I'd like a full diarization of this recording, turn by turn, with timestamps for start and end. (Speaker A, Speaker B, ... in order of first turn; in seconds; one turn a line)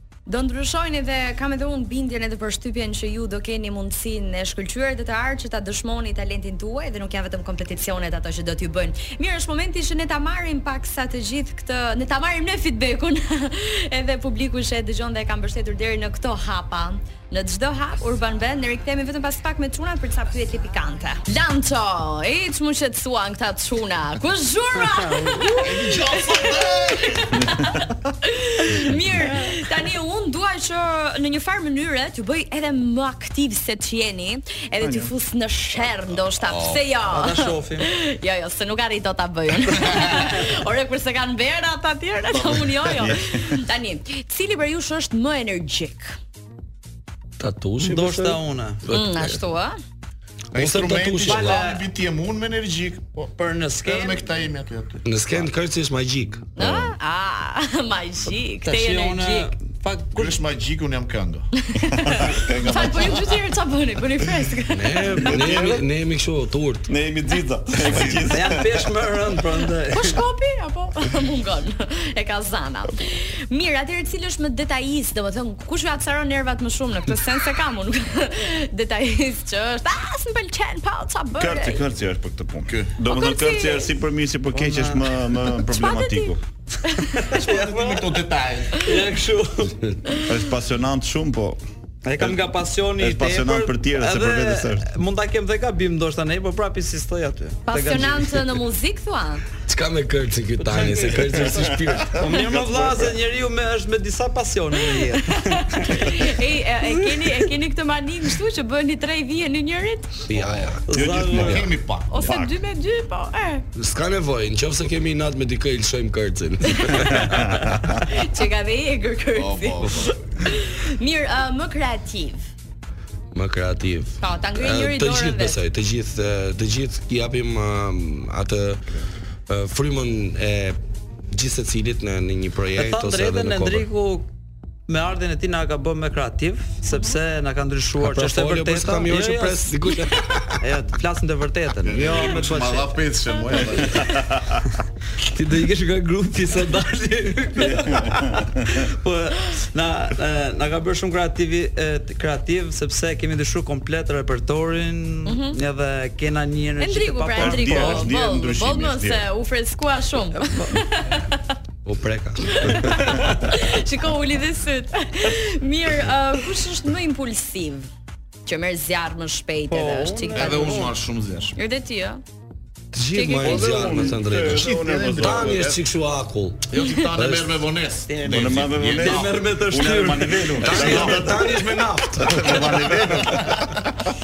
Speaker A: 0.3-46.2
Speaker B: 24.8-25.6
Speaker C: 25.6-27.4
Speaker D: 27.4-27.9
Speaker D: 34.8-35.1
Speaker C: 36.4-36.9
Speaker B: 37.1-37.9
Speaker D: 42.8-43.6
Speaker E: 47.4-49.4
Speaker B: 47.8-48.8
Speaker A: 48.9-49.8
Speaker E: 50.5-51.7
Speaker C: 50.5-53.3
Speaker B: 51.2-51.9
Speaker B: 53.4-54.2
Speaker C: 53.8-55.0
Speaker E: 55.0-56.5
Speaker A: 56.5-59.5
Speaker B: 58.6-60.4
Speaker C: 60.1-61.5
Speaker A: 61.5-65.4
Speaker D: 61.9-63.4
Speaker E: 64.7-66.9
Speaker D: 65.2-65.8
Speaker D: 66.9-68.9
Speaker C: 67.8-68.3
Speaker B: 68.3-70.2
Speaker A: 69.9-81.8
Speaker D: 81.4-86.4
Speaker C: 82.7-83.0
Speaker A: 83.1-83.9
Speaker B: 84.5-85.1
Speaker A: 85.6-87.4
Speaker B: 87.1-88.2
Speaker C: 87.3-88.9
Speaker B: 88.7-89.9
Speaker A: 88.8-89.0
Speaker D: 90.2-91.6
Speaker B: 92.0-98.5
Speaker D: 92.2-94.9
Speaker A: 97.7-99.5
Speaker E: 99.7-102.3
Speaker B: 100.6-101.5
Speaker D: 101.5-103.1
Speaker B: 102.2-106.3
Speaker A: 104.9-110.2
Speaker B: 106.9-107.4
Speaker E: 110.3-110.8
Speaker C: 110.3-112.3
Speaker B: 110.9-111.7
Speaker D: 110.9-112.5
Speaker A: 112.1-113.6
Speaker E: 113.8-117.5
Speaker A: 116.7-117.2
Speaker D: 117.1-118.0
Speaker A: 118.0-122.5
Speaker C: 119.3-120.2
Speaker E: 123.3-128.8
Speaker A: 124.2-125.6
Speaker E: 129.5-130.8
Speaker E: 131.3-133.9
Speaker B: 132.8-134.2
Speaker B: 134.9-139.9
Speaker E: 138.0-140.6
Speaker B: 140.6-142.9
Speaker C: 141.8-144.2
Speaker D: 143.9-144.6
Speaker B: 145.2-158.1
Speaker D: 147.6-148.8
Speaker A: 155.2-155.6
Speaker A: 156.8-161.5
Speaker D: 157.4-159.3
Speaker B: 160.3-160.8
Speaker E: 161.8-163.0
Speaker A: 162.4-167.9
Speaker A: 168.4-170.9
Speaker B: 169.7-170.9
Speaker C: 170.3-171.6
Speaker A: 171.6-172.2
Speaker E: 172.9-177.6
Speaker A: 173.1-173.9
Speaker D: 173.4-175.7
Speaker C: 174.0-175.8
Speaker C: 176.7-179.6
Speaker B: 178.1-181.2
Speaker D: 178.2-183.9
Speaker E: 180.6-182.8
Speaker C: 180.8-181.4
Speaker C: 182.7-183.8